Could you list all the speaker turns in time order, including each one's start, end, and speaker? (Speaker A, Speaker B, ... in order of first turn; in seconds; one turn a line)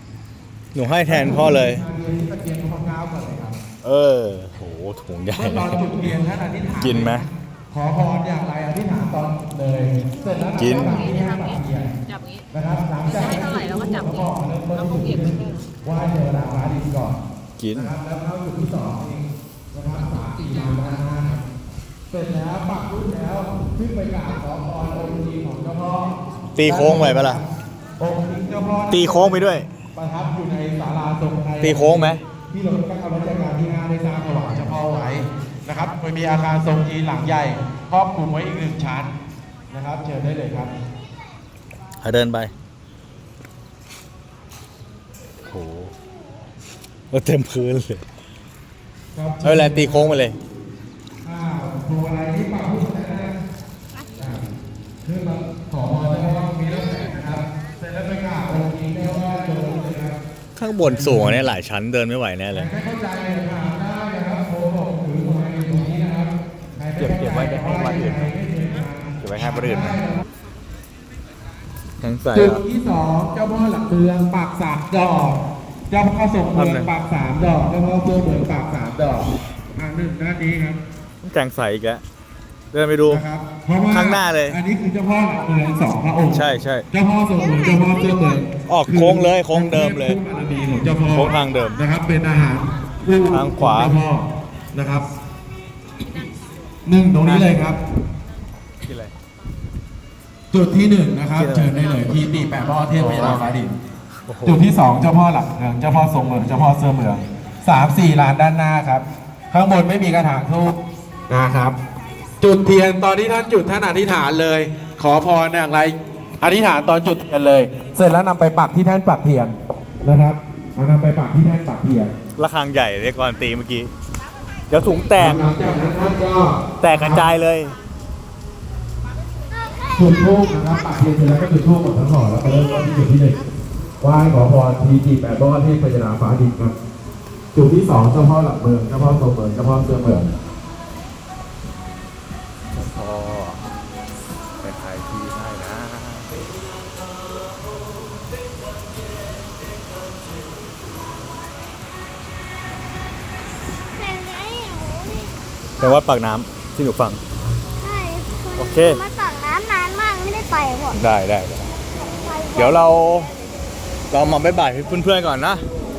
Speaker A: 0.7-1.8
Speaker B: 1.1-3.6
Speaker A: 3.8-5.9
Speaker B: 5.3-11.9
Speaker A: 6.8-7.3
Speaker A: 10.6-11.1
Speaker C: 10.8-11.5
Speaker C: 12.1-12.4
Speaker B: 12.5-17.2
Speaker C: 13.3-14.2
Speaker C: 14.8-15.5
Speaker A: 17.6-17.9
Speaker B: 17.7-21.4
Speaker B: 22.1-27.5
Speaker A: 26.6-27.4
Speaker B: 28.0-39.1
Speaker A: 28.9-29.7
Speaker A: 31.6-32.2
Speaker B: 39.7-40.7
Speaker A: 42.0-42.5
Speaker A: 45.5-45.9
Speaker A: 47.1-48.0
Speaker B: 49.1-50.2
Speaker A: 49.4-50.4
Speaker B: 51.2-53.4
Speaker B: 54.2-54.5
Speaker B: 55.0-60.2
Speaker A: 60.6-62.7
Speaker B: 60.8-61.5
Speaker B: 62.5-70.2
Speaker A: 67.0-68.3
Speaker A: 69.2-70.0
Speaker A: 72.0-72.6
Speaker B: 72.3-80.8
Speaker A: 76.5-76.9
Speaker A: 81.2-82.0
Speaker A: 82.7-83.2
Speaker B: 83.1-95.1
Speaker A: 83.9-84.6
Speaker A: 86.3-86.8
Speaker A: 88.7-90.2
Speaker A: 91.1-91.8
Speaker A: 93.3-94.0
Speaker B: 96.9-97.8
Speaker A: 97.2-97.5
Speaker A: 98.8-99.1
Speaker B: 100.5-103.7
Speaker A: 101.3-101.8
Speaker A: 103.0-103.5
Speaker A: 104.3-104.6
Speaker B: 104.5-110.8
Speaker B: 111.3-111.8
Speaker B: 112.4-122.1
Speaker A: 122.4-123.9
Speaker A: 124.7-125.5
Speaker B: 125.2-127.2
Speaker A: 126.8-127.8
Speaker B: 129.9-133.4
Speaker B: 134.0-136.7
Speaker B: 137.5-140.3
Speaker A: 142.7-143.7
Speaker A: 144.6-146.3
Speaker D: 154.0-155.3
Speaker A: 155.8-157.2
Speaker D: 157.8-161.0
Speaker A: 158.6-159.0
Speaker A: 160.9-161.7
Speaker D: 162.0-162.7
Speaker A: 162.5-163.3
Speaker A: 164.1-165.6